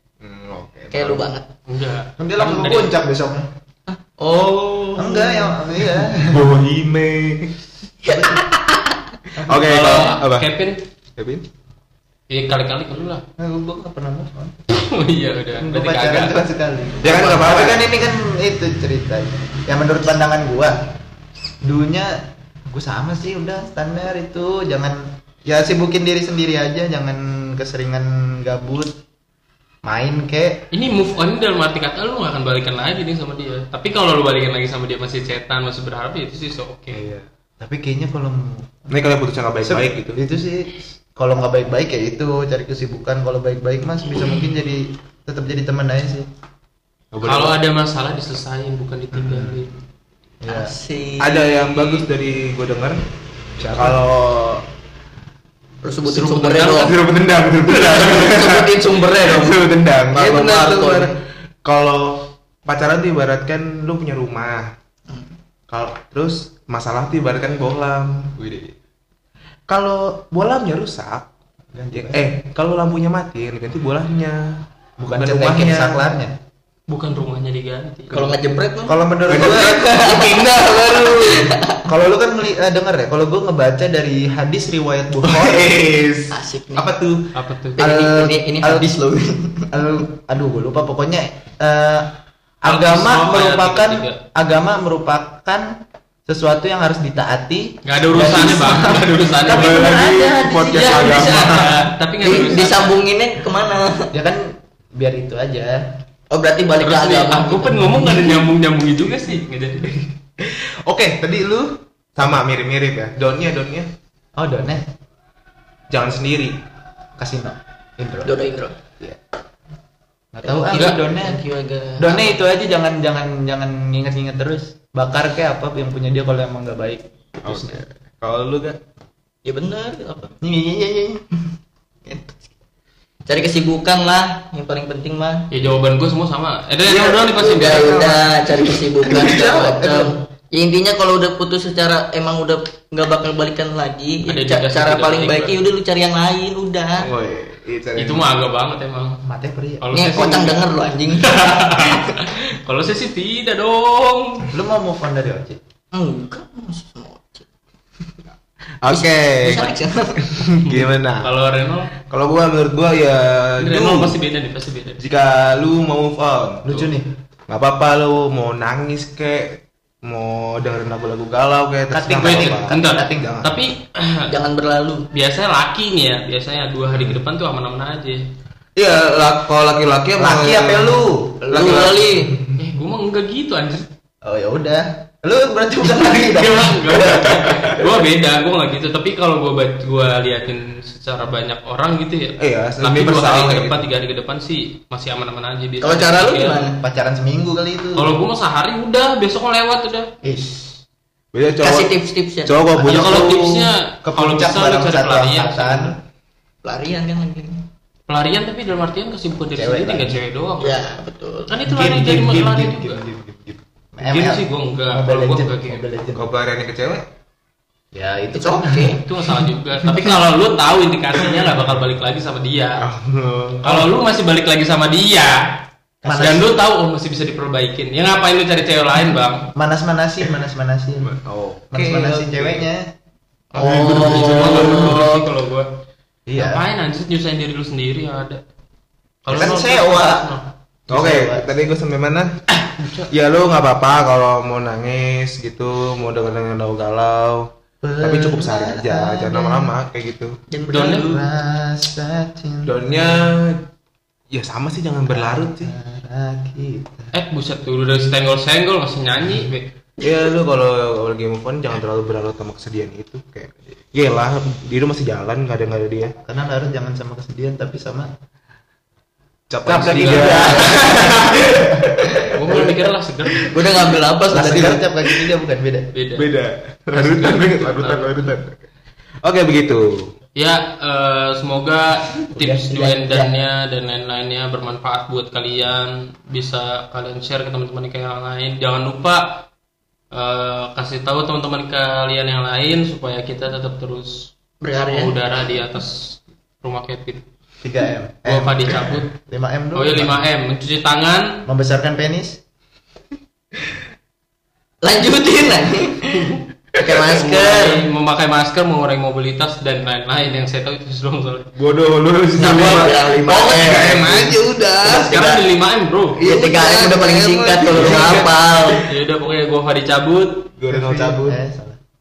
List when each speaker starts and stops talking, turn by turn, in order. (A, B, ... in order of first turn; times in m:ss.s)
0:00.2-0:01.3 A
0:00.9-0:01.5 B
0:01.7-0:03.0 C
0:02.2-0:03.5 D
0:03.9-0:05.6 B
0:05.0-0:06.5 D
0:06.0-0:07.6 A
0:08.0-0:09.0 B
0:08.0-0:08.4 D
0:09.4-0:10.5 A
0:09.4-0:09.9 D
0:09.6-0:10.8 C
0:11.2-0:11.4 A
0:12.3-0:13.2 C
0:13.4-0:14.6 D
0:14.7-0:16.4 C
0:15.6-0:20.8 D
0:17.0-0:17.7 B
0:17.0-0:17.9 A
0:21.6-0:29.0 D
0:29.8-0:30.6 D
0:30.7-0:37.0 C
0:36.9-0:37.2 A
0:37.6-0:39.0 D
0:38.9-0:40.2 A
0:39.6-0:46.3 D
0:47.1-0:47.6 A
0:47.2-0:49.7 C
0:49.1-0:49.6 D
0:50.4-0:50.7 D
0:50.5-0:51.9 B
0:51.2-0:53.0 A
0:53.6-0:54.2 A
0:53.8-0:54.5 D
0:55.8-0:57.0 B
0:56.2-0:56.9 C
0:56.2-1:04.7 A
0:57.6-1:01.2 B
1:05.1-1:05.3 B
1:05.7-1:08.7 A
1:09.7-1:11.3 A
1:11.7-1:12.3 D
1:11.9-1:16.0 A
1:15.0-1:16.4 D
1:16.9-1:18.4 C
1:18.1-1:21.8 B
1:18.9-1:19.8 D
1:19.3-1:21.6 A
1:21.9-1:25.8 D
1:25.2-1:27.3 A
1:26.3-1:26.9 B
1:27.3-1:27.8 C
1:27.8-1:29.8 B
1:27.8-1:28.9 D
1:29.7-1:35.7 D
1:32.6-1:34.2 C
1:36.3-1:41.7 D
1:37.8-1:40.0 C
1:38.3-1:38.7 B
1:39.5-1:41.8 A
1:40.7-1:43.0 C
1:42.2-1:44.1 B
1:44.1-1:46.0 D
1:46.3-1:48.3 B
1:46.8-1:50.0 C
1:50.4-1:53.9 A
1:54.4-1:54.9 D
1:55.9-1:56.6 A
1:57.2-1:58.3 D
1:58.2-1:58.8 B
2:00.3-2:01.4 D
2:00.4-2:02.4 B
2:00.7-2:01.0 C
2:02.0-2:07.8 D
2:07.4-2:08.8 A
2:09.4-2:10.4 B
2:10.4-2:11.2 D
2:12.1-2:12.4 B
2:13.3-2:15.5 B
2:15.5-2:18.0 C
2:16.9-2:20.2 A
2:17.4-2:27.1 B
2:24.3-2:25.6 C
2:27.0-2:28.3 A
2:28.0-2:29.2 C
2:29.2-2:29.9 D
2:29.8-2:34.5 C
2:29.9-2:32.1 B
2:34.5-2:35.6 D
2:35.9-2:37.5 B
2:38.8-2:41.3 A
2:38.9-2:40.2 B
2:40.6-2:41.9 C
2:42.0-2:44.2 A
2:43.6-2:45.0 C
2:45.0-2:46.7 A
2:46.6-2:47.1 D
2:47.5-2:53.6 A
2:51.9-2:53.4 D
2:52.2-2:54.3 C
2:54.3-2:55.1 B
2:55.1-2:58.2 C
2:58.8-3:02.6 A
3:00.2-3:01.8 D
3:01.4-3:02.4 B
3:02.6-3:03.9 C
3:04.2-3:07.8 D
3:06.0-3:16.7 C
3:12.4-3:13.8 A
3:15.8-3:16.8 B
3:16.8-3:18.1 D
3:18.0-3:20.1 C
3:20.2-3:20.6 D
3:20.3-3:20.6 B
3:21.3-3:21.9 A
3:21.6-3:23.1 B
3:22.4-3:23.6 A
3:22.8-3:26.0 D
3:22.9-3:26.0 C
3:26.6-3:27.7 B
3:28.1-3:30.8 C
3:29.5-3:30.2 D
3:30.6-3:31.6 B
3:31.5-3:33.0 C
3:31.7-3:36.3 D
3:34.0-3:35.9 C
3:36.1-3:37.1 A
3:37.9-3:39.0 D
3:38.4-3:39.0 B
3:38.9-3:42.8 C
3:42.8-3:43.9 A
3:43.6-3:49.5 C
3:46.0-3:46.6 D
3:49.6-3:51.2 D
3:51.0-3:52.7 A
3:51.7-3:52.9 D
3:53.6-3:55.0 A
3:53.6-3:55.2 B
3:53.6-3:55.8 C
3:56.3-3:56.7 D
3:56.4-3:58.4 C
3:59.2-4:00.5 C
3:59.3-4:00.3 D
4:00.9-4:01.6 D
4:00.9-4:10.4 A
4:07.8-4:09.7 D
4:10.5-4:11.2 B
4:10.7-4:11.2 C
4:10.8-4:13.3 D
4:12.6-4:13.7 A
4:14.3-4:15.7 A
4:15.1-4:17.1 D
4:17.1-4:19.7 C
4:20.0-4:26.2 A
4:26.2-4:28.1 D
4:29.5-4:32.3 A
4:29.7-4:31.9 D
4:29.7-4:30.9 C
4:30.2-4:30.9 B
4:32.3-4:33.6 C
4:33.4-4:34.8 B
4:34.3-4:35.9 D
4:35.9-4:36.3 C
4:36.2-4:38.6 A
4:36.9-4:38.2 C
4:39.2-4:40.1 A
4:40.4-4:49.5 C
4:42.4-4:42.8 D
4:42.8-4:43.3 B
4:50.1-4:57.2 C
4:54.6-4:55.2 B
4:57.6-5:00.2 D
4:58.3-4:59.2 C
4:59.8-5:01.4 C
5:01.5-5:02.4 D
5:04.8-5:07.8 B
5:07.2-5:11.5 C
5:11.6-5:15.2 A
5:12.4-5:15.5 B
5:14.9-5:16.2 C
5:16.2-5:18.8 B
5:16.2-5:18.9 A
5:18.9-5:20.5 C
5:20.6-5:21.4 A
5:20.7-5:21.8 D